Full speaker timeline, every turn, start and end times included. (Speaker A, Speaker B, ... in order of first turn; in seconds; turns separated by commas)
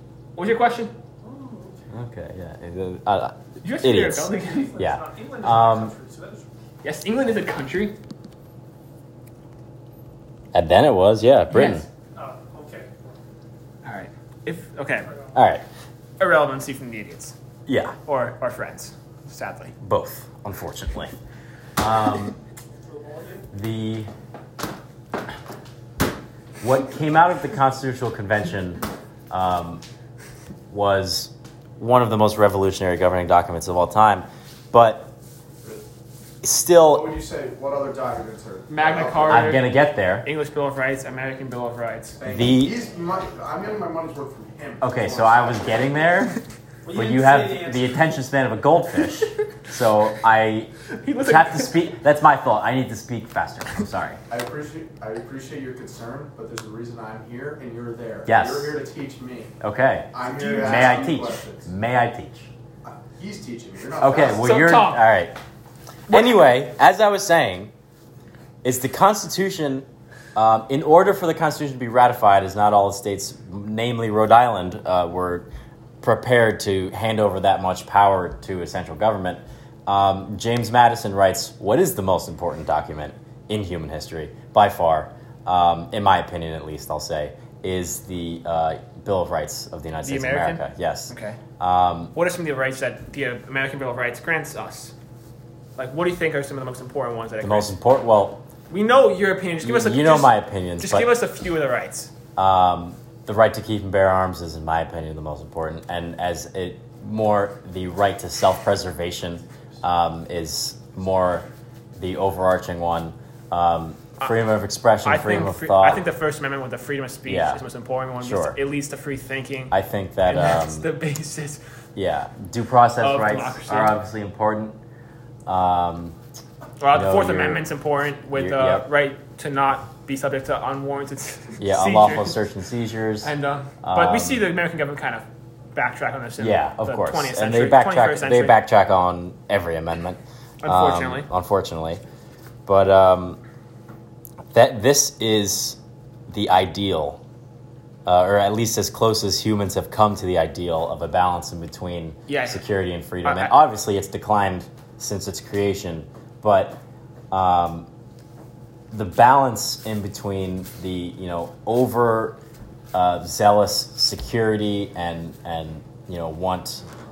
Speaker A: 0.4-0.9, Speaker B: 1.2-1.9, Speaker C: 1.9-5.9, Speaker A: 3.6-4.7, Speaker B: 4.4-6.5, Speaker A: 6.8-8.0, Speaker C: 10.5-11.9, Speaker A: 11.5-11.8, Speaker B: 12.1-13.2, Speaker A: 13.8-15.1, Speaker B: 15.1-15.3, Speaker C: 15.3-15.6, Speaker A: 16.2-17.4, Speaker C: 17.7-18.0, Speaker A: 18.1-19.8, Speaker C: 19.8-21.1, Speaker C: 21.8-22.4, Speaker B: 22.8-23.5, Speaker C: 23.5-24.1, Speaker C: 26.6-29.8, Speaker C: 30.7-35.1, Speaker C: 36.4-37.1, Speaker D: 36.8-39.5, Speaker A: 38.7-39.7, Speaker C: 39.2-40.3, Speaker A: 40.2-42.2, Speaker D: 42.2-45.9, Speaker C: 42.3-42.8, Speaker C: 44.8-46.4, Speaker B: 46.8-48.1, Speaker C: 46.9-54.2, Speaker A: 50.9-51.8, Speaker D: 54.3-59.5, Speaker C: 58.3-58.8, Speaker C: 59.6-62.5, Speaker D: 60.1-61.7, Speaker D: 62.8-64.6, Speaker C: 64.0-65.4, Speaker A: 64.3-65.0, Speaker A: 66.1-66.4, Speaker C: 66.1-67.7, Speaker C: 68.6-75.5, Speaker C: 76.0-92.1, Speaker A: 90.0-91.4, Speaker A: 92.1-94.9, Speaker A: 95.8-97.7, Speaker C: 97.4-98.4, Speaker A: 98.7-102.1, Speaker C: 99.6-101.1, Speaker C: 102.4-116.0, Speaker A: 115.0-119.7, Speaker C: 117.3-117.6, Speaker C: 118.2-118.6, Speaker C: 119.7-120.9, Speaker A: 120.2-121.6, Speaker C: 122.0-124.8, Speaker A: 123.0-124.0, Speaker C: 125.5-126.2, Speaker A: 126.8-132.4, Speaker C: 126.9-127.7, Speaker C: 128.3-128.9, Speaker C: 131.6-134.4, Speaker A: 133.2-138.6, Speaker C: 136.4-142.0, Speaker A: 140.6-141.3, Speaker C: 142.7-143.4, Speaker C: 144.5-145.8, Speaker C: 146.3-147.2, Speaker C: 148.1-156.8, Speaker A: 152.3-152.7, Speaker A: 153.2-153.5, Speaker C: 157.3-157.9, Speaker C: 158.9-162.4, Speaker C: 162.9-166.8